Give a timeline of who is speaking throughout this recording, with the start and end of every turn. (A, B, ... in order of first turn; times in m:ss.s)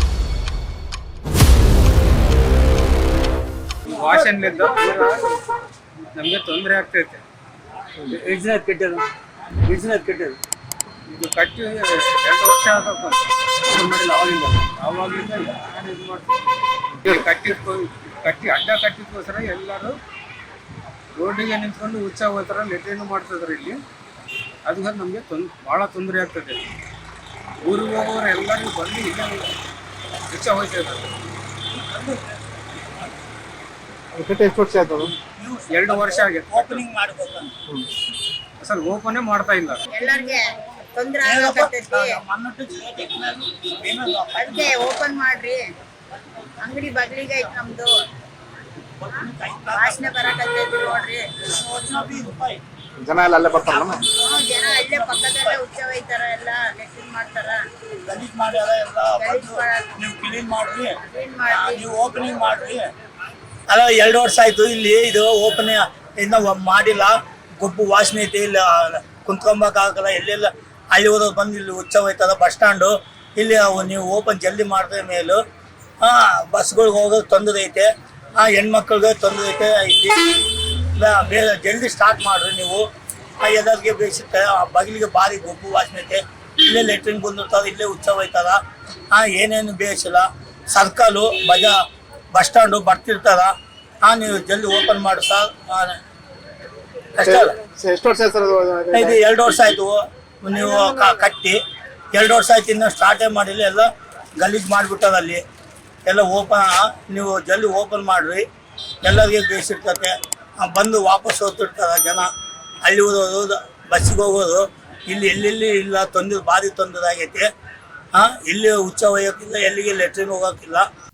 0:03.8-0:05.2 A
0:06.1-0:07.2 A
0:08.1-0:09.0 A
0:09.6-0:10.4 A
0:11.1-0:16.3 A
0:17.0-0:20.0 A
0:21.2-0:23.8 A
0:24.7-0:26.6 A
0:27.6-0:29.5 A
0:30.3-0:31.1 A
0:31.7-0:33.1 B
0:34.2-0:35.0 C
0:35.2-0:37.5 B
0:35.7-0:36.8 A
0:38.6-0:39.9 A
0:39.9-0:42.2 D
0:41.2-0:44.8 B
0:44.4-0:45.6 D
0:46.6-0:47.9 D
0:49.0-0:50.2 B
0:49.7-0:51.2 D
0:51.4-0:52.6 B
0:53.1-0:54.0 C
0:53.6-0:55.6 B
0:54.1-0:57.6 D
0:58.1-1:01.0 B
0:59.2-0:59.9 D
1:01.0-1:01.9 D
1:01.5-1:02.9 B
1:03.7-1:15.4 B
1:16.0-1:20.2 B
1:21.0-1:22.8 B
1:23.4-1:28.6 B
1:29.1-1:31.7 B
1:32.3-1:33.5 B
1:34.0-1:36.0 B
1:37.2-1:37.6 B
1:37.8-1:39.1 C
1:38.9-1:41.6 B
1:42.1-1:43.9 B
1:44.4-1:45.4 B
1:46.0-1:48.4 B
1:49.0-1:52.3 B
1:52.8-1:57.5 B
1:58.1-2:00.9 B